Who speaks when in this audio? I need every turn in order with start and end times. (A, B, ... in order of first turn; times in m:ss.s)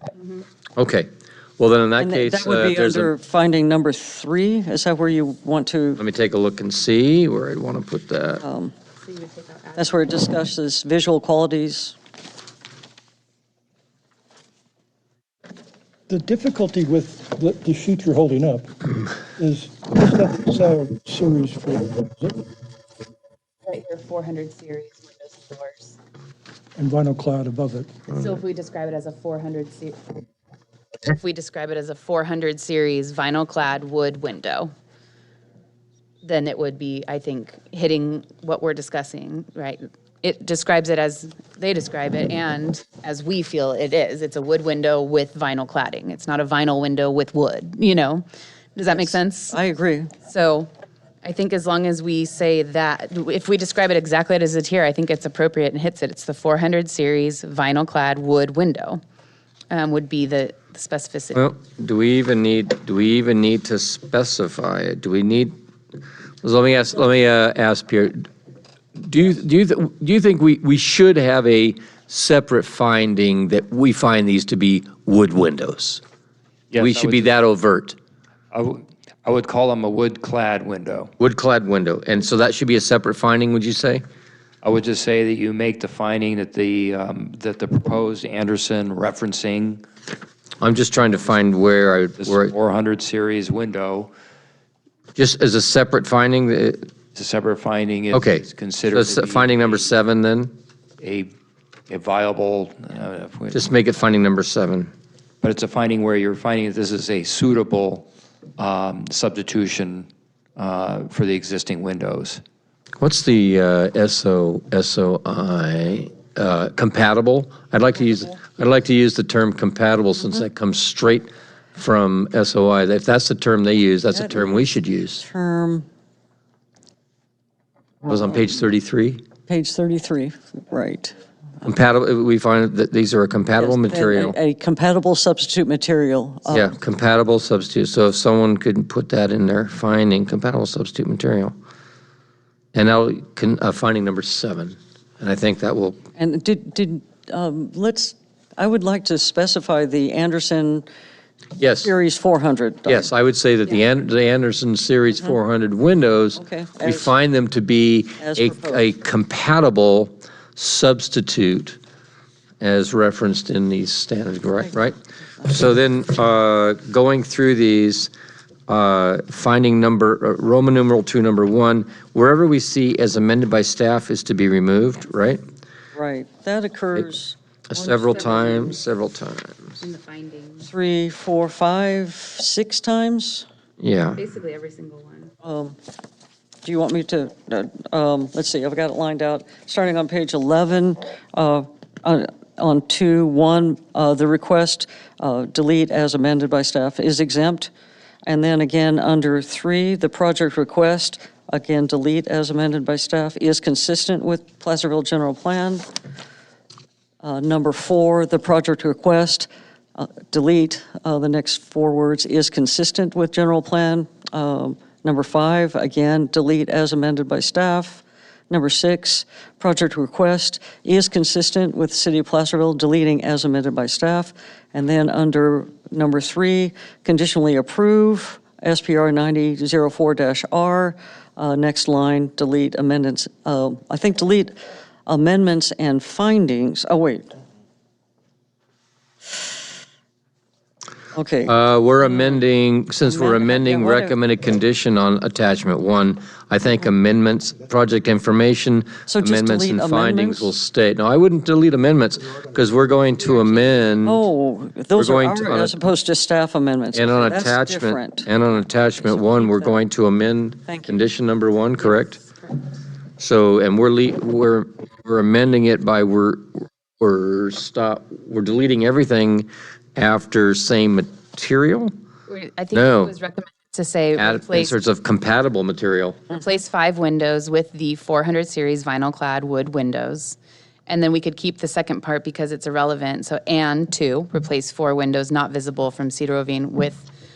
0:00.2-0:00.4 A
0:00.8-0:03.1 B
0:02.0-0:06.0 C
0:06.0-0:08.4 B
0:08.4-0:08.7 C
0:09.0-0:10.2 A
0:09.8-0:12.0 C
0:16.1-0:18.7 D
0:19.4-0:22.4 D
0:23.7-0:26.0 A
0:26.8-0:28.0 D
0:28.1-0:30.2 A
0:31.1-0:34.7 A
0:36.2-0:49.6 A
0:49.5-0:50.2 C
0:50.2-0:50.7 A
0:51.2-0:59.0 A
0:59.7-1:01.5 A
1:01.4-1:05.6 B
1:06.4-1:08.3 B
1:09.0-1:16.0 B
1:16.7-1:17.4 E
1:16.8-1:18.0 B
1:18.5-1:21.1 E
1:21.2-1:24.0 B
1:24.6-1:29.8 E
1:30.6-1:32.5 B
1:32.2-1:34.1 E
1:35.2-1:36.9 B
1:37.2-1:39.9 E
1:38.1-1:40.5 B
1:41.0-1:41.3 E
1:41.9-1:43.6 E
1:43.5-1:44.9 B
1:45.4-1:52.4 E
1:53.0-2:05.2 B
2:04.1-2:05.9 C
2:08.0-2:09.2 B
2:09.5-2:11.2 C
2:11.6-2:14.4 B
2:13.6-2:16.7 C
2:16.5-2:21.5 B
2:22.7-2:26.0 B
2:26.2-2:30.9 C
2:31.6-2:31.9 B
2:31.8-2:33.1 C
2:32.9-2:41.8 B
2:36.4-2:37.1 C
2:38.2-2:38.9 C
2:42.6-2:48.1 B
2:48.7-2:55.4 B
2:55.9-2:58.7 C
2:57.7-2:59.8 B
2:59.8-3:00.7 A
3:00.6-3:03.4 C
3:03.8-3:04.2 B
3:04.2-3:05.3 A
3:05.4-3:05.8 C
3:06.6-3:17.7 C
3:18.2-3:25.8 C
3:27.2-3:54.5 C
3:55.1-3:57.3 C
4:01.1-4:01.5 C
4:01.5-4:14.2 B
4:03.0-4:04.2 C
4:09.1-4:10.5 C
4:14.0-4:19.8 C
4:15.0-4:15.8 B
4:16.9-4:22.2 B
4:20.7-4:21.0 C
4:21.8-4:22.6 A
4:23.2-4:31.9 B
4:32.3-4:34.8 A
4:32.7-4:33.1 B
4:34.2-4:36.2 B
4:36.3-4:47.1 A